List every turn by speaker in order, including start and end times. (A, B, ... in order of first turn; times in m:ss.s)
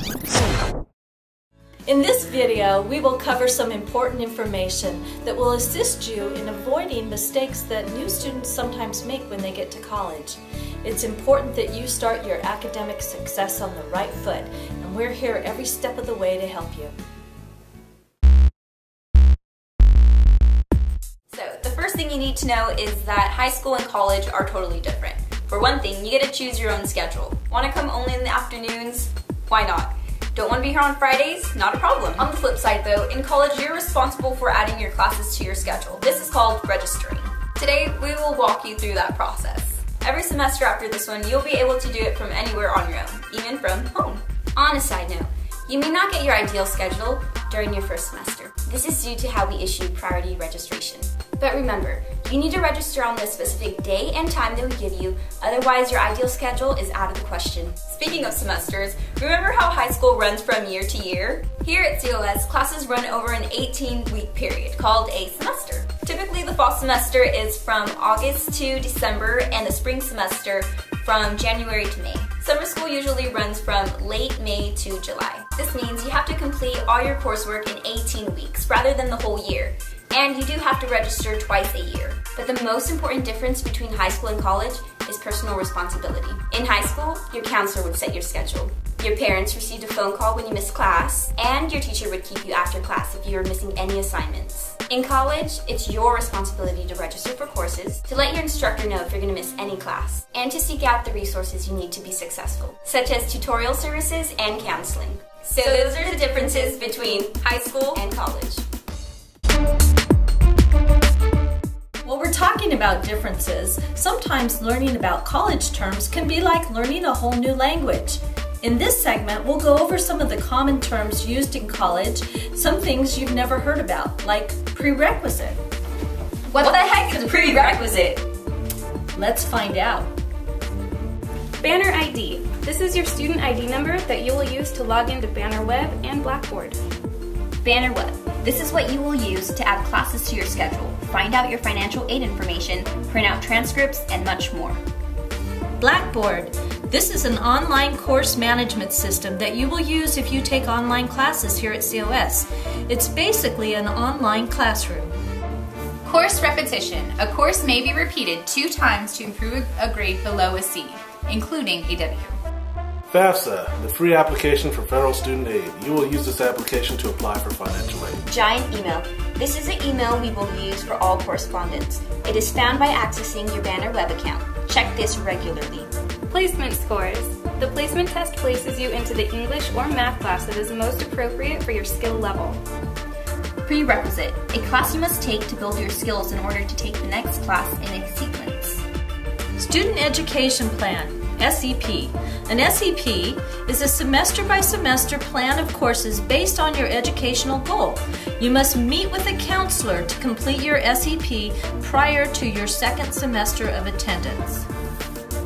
0:01.9-0:16.9 A
0:21.3-1:48.6 B
1:45.6-1:46.1 C
1:52.0-2:05.6 A
2:06.5-2:08.2 B
2:09.1-2:10.1 A
2:11.6-2:16.8 D
2:17.6-2:24.8 B
2:25.8-2:35.1 A
2:36.0-2:42.4 C
2:43.1-2:48.2 E
2:48.2-2:55.9 B
2:56.3-3:02.6 D
3:03.6-3:08.8 B
3:09.6-3:24.7 A